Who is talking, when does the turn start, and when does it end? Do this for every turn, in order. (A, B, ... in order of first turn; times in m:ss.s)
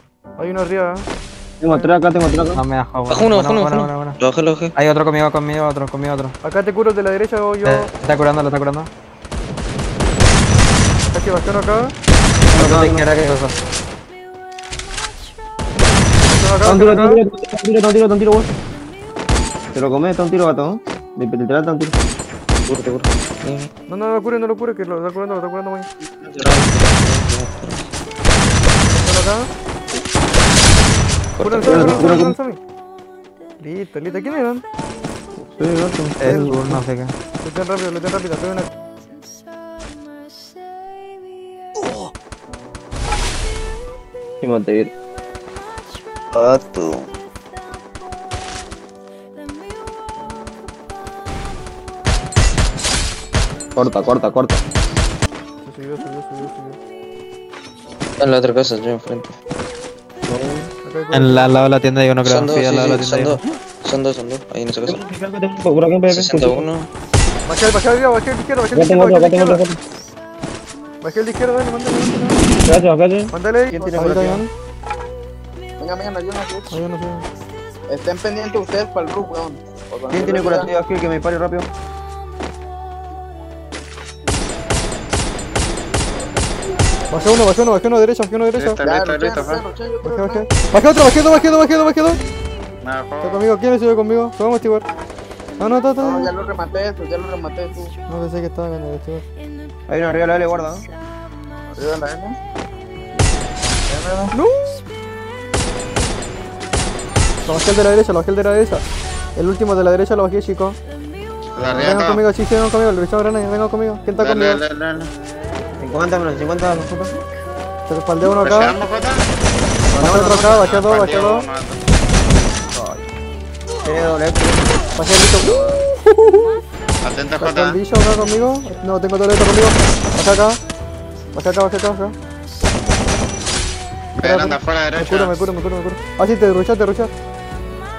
0:00.4-0:01.0 A
0:01.6-0:02.6 B
0:02.5-0:04.2 C
0:03.1-0:04.7 D
0:04.8-0:06.3 C
0:06.4-0:07.9 A
0:07.6-0:08.9 C
0:11.1-0:11.8 A
0:12.5-0:13.3 B
0:12.5-0:13.5 C
0:16.2-0:17.2 A
0:16.6-0:18.5 B
0:19.7-0:21.9 B
0:22.7-0:23.7 D
0:23.9-0:25.9 A
0:26.2-0:27.8 D
0:28.9-0:29.4 A
0:31.4-0:32.2 D
0:31.4-0:32.6 A
0:31.6-0:32.3 B
0:33.6-0:34.6 A
0:35.4-0:36.6 B
0:36.2-0:37.1 C
0:36.2-0:36.6 A
0:37.4-0:38.7 A
0:44.4-0:44.9 B
0:53.8-0:54.6 B
0:55.6-0:56.8 A
0:58.2-0:59.3 D
1:00.3-1:00.7 B
1:00.8-1:01.6 A
1:01.1-1:03.4 C
1:02.2-1:05.0 D
1:04.8-1:06.6 B
1:06.1-1:06.9 D
1:07.5-1:09.6 A
1:08.7-1:09.8 B
1:11.0-1:12.4 A
1:12.6-1:14.4 B
1:13.3-1:14.5 A
1:15.8-1:16.8 E
1:16.7-1:17.2 A
1:17.9-1:20.7 E
1:20.1-1:21.7 B
1:27.1-1:28.8 A
1:28.6-1:29.6 F
1:28.8-1:30.5 E
1:30.0-1:32.2 A
1:32.8-1:33.4 F
1:33.2-1:34.8 A
1:35.6-1:36.3 A
1:36.0-1:37.9 E
1:38.1-1:39.2 A
1:39.9-1:40.8 B
1:41.7-1:42.3 E
1:43.9-1:44.3 E
1:44.3-1:44.7 A
1:47.5-1:48.8 A
1:49.4-1:50.8 A
1:51.6-1:52.2 F
1:51.7-1:54.6 A
1:54.2-1:55.1 F
1:55.8-1:57.1 B
1:57.9-1:58.8 A
1:58.4-1:59.2 F
1:59.9-2:00.4 B
2:00.0-2:01.5 A
2:00.5-2:01.8 F
2:02.6-2:03.0 B
2:03.8-2:04.6 B
2:05.0-2:06.5 A
2:07.0-2:07.8 F
2:07.4-2:10.6 A
2:11.3-2:12.1 A
2:14.2-2:15.4 F
2:14.2-2:17.1 A